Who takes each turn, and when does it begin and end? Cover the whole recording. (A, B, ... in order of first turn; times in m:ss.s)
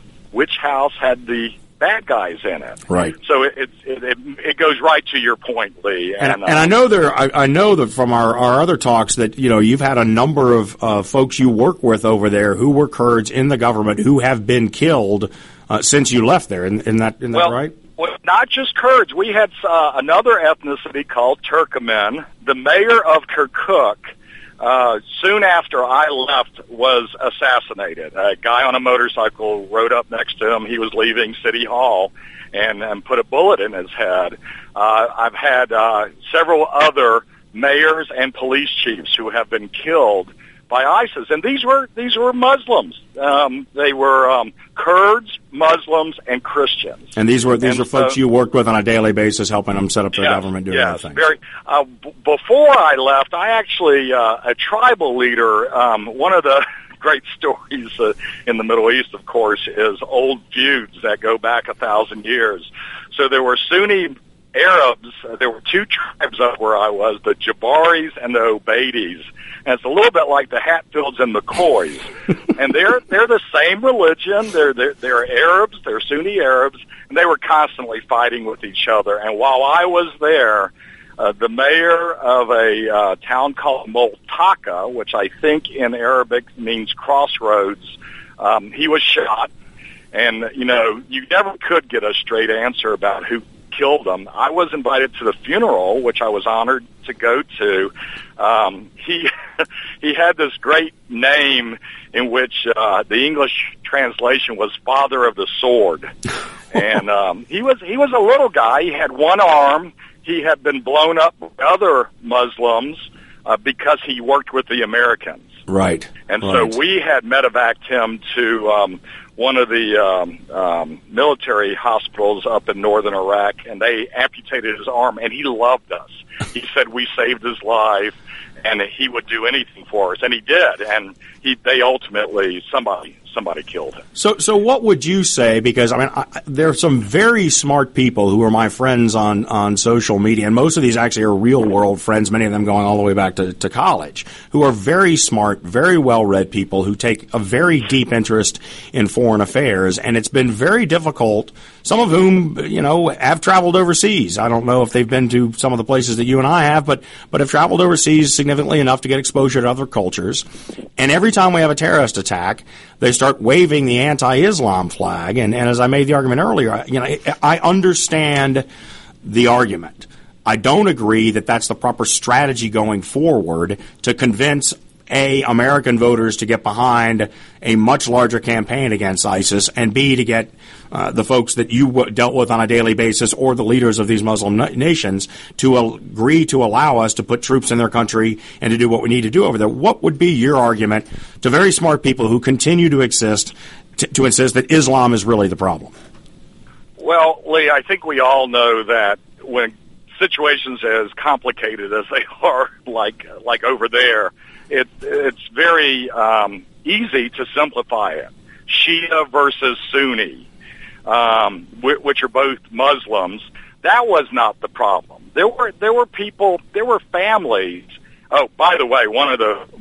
0:00.3-0:06.7 A
0:02.9-0:03.1 B
0:06.2-0:17.8 B
0:17.3-0:47.1 A
0:47.2-0:51.2 B
0:47.6-0:48.2 A
0:50.1-1:29.5 A
1:30.1-1:46.1 A
1:46.7-1:55.5 A
1:55.7-1:56.8 B
1:56.3-2:14.0 A
2:14.2-2:40.4 B
2:41.0-2:48.7 B
2:49.2-3:15.9 B
3:17.0-3:30.4 A
3:31.1-3:39.7 A